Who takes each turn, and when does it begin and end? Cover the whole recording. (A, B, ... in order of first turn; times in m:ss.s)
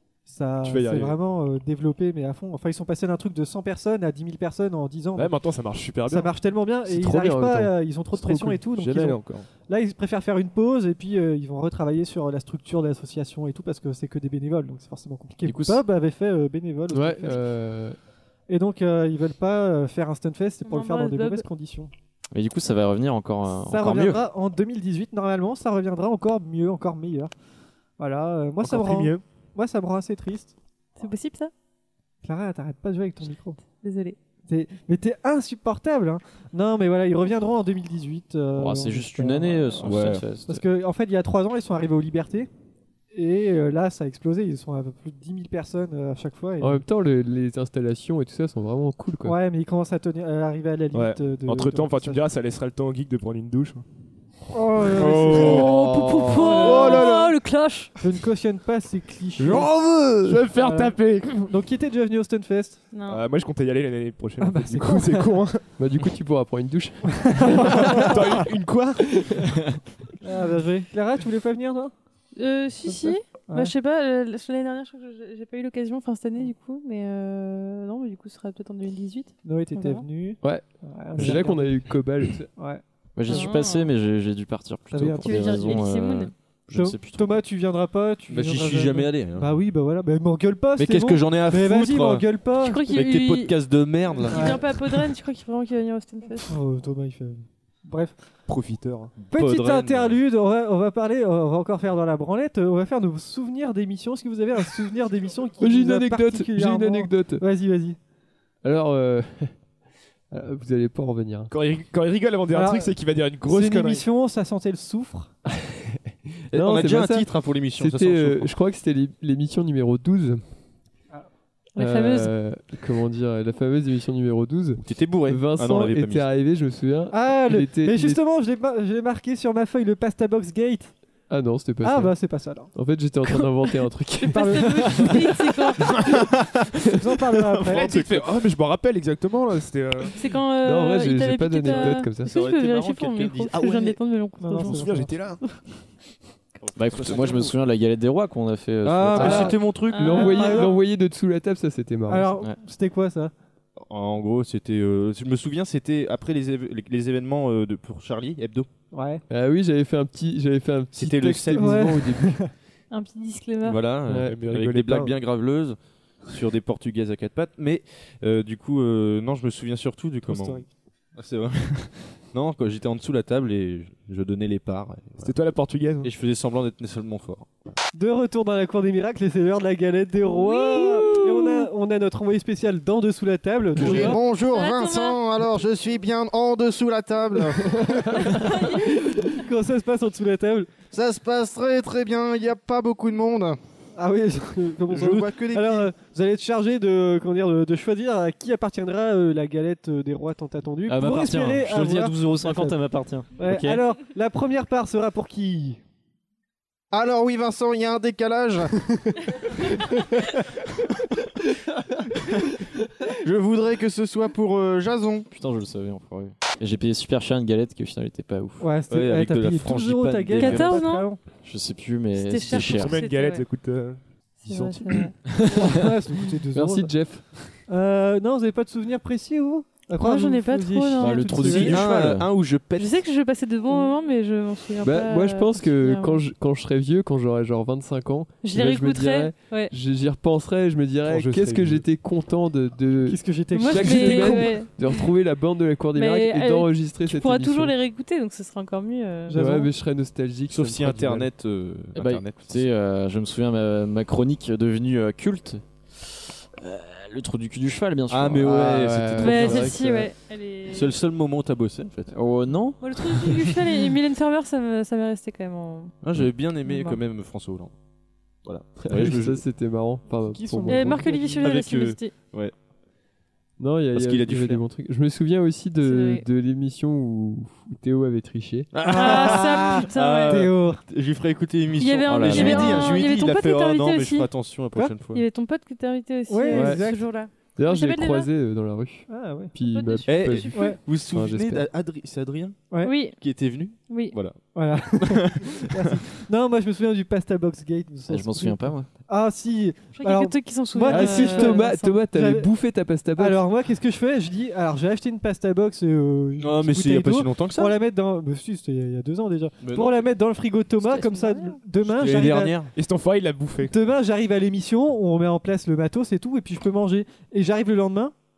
0:00.3-0:05.4 A
0:00.6-0:01.2 B
0:05.2-0:06.3 B
0:06.1-0:17.4 A
0:06.9-0:08.6 C
0:08.8-0:09.5 B
0:15.4-0:15.8 D
0:16.9-0:18.0 C
0:18.5-0:21.9 A
0:20.6-0:21.5 E
0:22.3-0:24.2 D
0:23.5-0:27.3 A
0:28.0-0:30.5 A
0:28.6-0:29.2 B
0:31.0-0:31.5 E
0:32.2-0:33.6 A
0:33.8-0:34.2 E
0:34.5-0:39.9 A
0:38.6-0:40.6 D
0:39.8-0:40.3 F
0:40.5-0:42.5 A
0:43.1-0:46.8 A
0:46.6-0:49.4 C
0:49.2-0:52.2 A
0:50.9-0:53.8 B
0:54.5-0:55.7 A
0:55.0-0:55.6 F
0:55.3-0:57.9 E
0:55.6-0:56.4 C
0:56.4-0:57.2 A
0:58.0-0:59.7 A
1:00.2-1:01.5 B
1:00.6-1:02.8 A
1:02.9-1:03.2 E
1:03.1-1:05.6 B
1:04.4-1:05.4 A
1:05.8-1:08.0 C
1:07.2-1:08.4 A
1:07.7-1:09.2 B
1:10.2-1:11.9 A
1:12.4-1:20.0 E
1:12.9-1:13.7 A
1:19.4-1:21.8 A
1:21.2-1:22.5 C
1:22.6-1:22.8 A
1:23.2-1:27.4 D
1:23.3-1:23.9 E
1:24.9-1:25.9 A
1:25.2-1:26.3 E
1:26.7-1:32.8 A
1:28.3-1:29.6 F
1:30.8-1:32.2 F
1:32.6-1:33.6 E
1:32.9-1:34.6 F
1:34.1-1:36.5 E
1:34.3-1:34.6 A
1:36.4-1:38.2 A
1:38.5-1:39.1 B
1:39.2-1:40.2 F
1:39.3-1:48.0 A
1:45.6-1:47.4 C
1:48.6-1:49.5 C
1:50.3-1:51.5 C
1:51.5-1:54.0 B
1:52.5-1:52.9 A
1:53.5-1:55.3 A
1:55.5-1:56.0 C
1:56.5-1:58.5 F
1:56.5-2:00.4 C
2:01.8-2:02.3 E
2:01.8-2:08.2 C
2:04.8-2:06.3 F
2:07.1-2:10.9 A
2:11.3-2:15.1 C
2:11.8-2:12.7 A
2:14.2-2:15.9 E
2:14.3-2:15.3 A
2:16.9-2:18.0 A
2:17.6-2:20.1 B
2:17.8-2:18.3 F
2:20.2-2:24.8 E
2:20.6-2:22.3 C
2:21.7-2:24.0 F
2:24.4-2:25.1 A
2:24.6-2:25.4 B
2:26.7-2:27.5 F
2:26.8-2:29.6 D
2:28.8-2:30.6 F
2:29.1-2:32.3 C
2:29.9-2:30.7 E
2:30.1-2:30.7 A
2:32.1-2:33.3 A
2:33.8-2:38.7 F
2:38.9-2:39.2 A
2:39.3-2:42.4 C
2:40.9-2:41.9 F
2:41.6-2:42.5 A
2:42.9-2:43.8 E
2:43.6-2:50.6 F
2:44.1-2:44.4 C
2:44.2-2:45.1 B
2:50.3-2:50.6 A
2:51.2-2:55.3 F
2:55.2-2:56.1 B
2:56.0-2:57.7 F
2:57.9-3:04.2 A
3:00.3-3:01.7 E
3:03.8-3:07.8 G
3:04.4-3:05.2 E
3:08.3-3:08.9 E
3:08.3-3:10.7 A
3:10.9-3:13.6 G
3:14.0-3:22.8 A
3:15.0-3:15.9 G
3:20.9-3:23.8 D
3:23.4-3:25.8 A
3:26.9-3:28.7 G
3:33.2-3:35.3 G
3:35.3-3:38.8 D
3:38.6-3:41.2 A
3:38.9-3:40.9 F
3:40.4-3:41.1 E
3:41.4-3:43.0 D
3:42.2-3:43.4 E
3:42.6-3:45.1 B
3:44.4-3:45.1 E
3:45.6-3:47.0 A
3:46.5-3:47.6 C
3:47.7-3:51.9 A
3:50.0-3:51.8 E
3:51.0-3:52.3 D
3:51.5-3:53.1 F
3:52.8-3:56.2 E
3:54.8-4:07.7 C
3:58.4-3:59.7 E
4:01.1-4:01.9 B
4:03.1-4:04.6 A
4:03.5-4:05.0 E
4:05.9-4:09.4 E
4:09.3-4:09.7 A
4:09.3-4:11.3 C
4:10.5-4:12.7 F
4:12.0-4:16.0 D
4:16.6-4:18.8 D
4:18.1-4:19.7 F
4:18.5-4:20.1 C
4:19.2-4:20.9 E
4:20.7-4:22.1 F
4:22.1-4:22.9 D
4:22.8-4:26.0 E
4:26.0-4:27.7 F
4:26.7-4:27.0 E
4:28.4-4:29.4 F
4:28.8-4:31.0 C
4:30.2-4:31.5 A
4:30.7-4:32.1 E
4:31.4-4:32.5 F
4:33.6-4:38.7 C
4:33.9-4:34.6 F
4:35.8-4:36.2 E
4:38.7-4:45.2 F
4:38.9-4:40.8 A
4:38.9-4:40.5 E
4:41.8-4:44.3 E
4:42.1-4:42.9 D
4:45.1-4:48.3 E
4:46.3-4:47.1 A
4:46.5-4:46.9 C
4:47.6-4:51.6 C
4:49.1-4:49.5 A
4:49.7-4:50.8 E
4:50.1-4:52.6 F
4:50.5-4:50.8 A
4:52.7-4:53.0 A
4:52.8-4:53.2 E
4:53.1-4:54.4 F
4:53.9-4:54.2 E
4:54.5-5:02.5 A
4:55.0-4:55.6 F
4:58.1-4:58.9 D
5:00.0-5:02.0 E
5:00.9-5:03.4 C
5:03.2-5:12.6 A
5:06.4-5:07.7 F
5:09.6-5:10.0 F
5:10.8-5:11.6 E
5:11.8-5:12.7 F
5:12.8-5:13.7 B
5:13.6-5:18.1 A